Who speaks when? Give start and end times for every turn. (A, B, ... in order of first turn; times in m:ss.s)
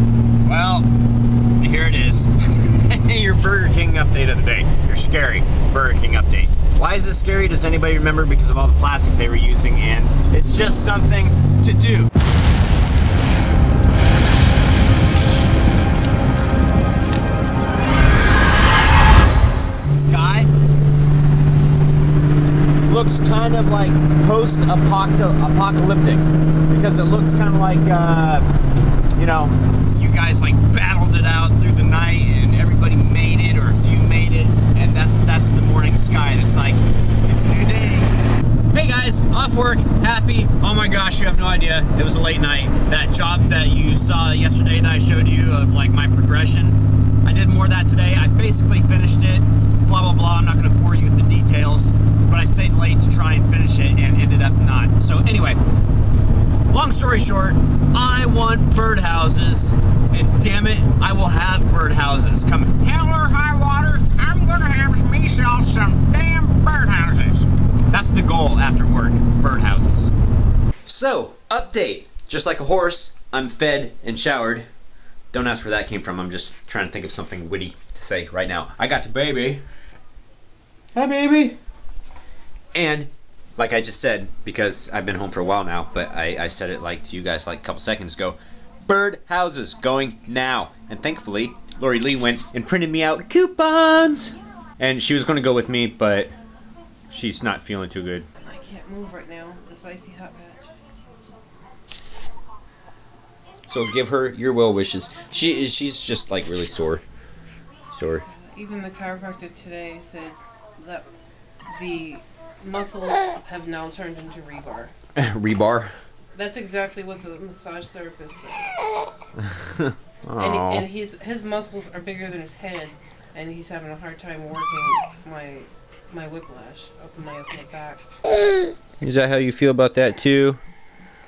0:00.4-0:00.9 A
0:01.6-0:12.1 A
0:19.9-0:20.5 A
0:22.9-0:28.5 A
0:29.2-0:38.1 A
0:38.7-0:55.6 A
0:56.7-1:10.1 A
1:10.9-1:14.6 A
1:15.3-1:19.6 A
1:21.0-1:21.6 A
1:22.7-1:36.3 A
1:37.1-1:38.3 A
1:38.4-1:40.7 B
1:43.7-1:47.0 A
1:47.9-1:48.3 A
1:48.3-1:51.0 B
1:51.7-1:54.9 B
1:55.2-1:55.9 A
1:56.4-1:58.7 B
1:59.4-2:00.9 A
2:00.4-2:08.0 B
2:09.0-2:10.6 A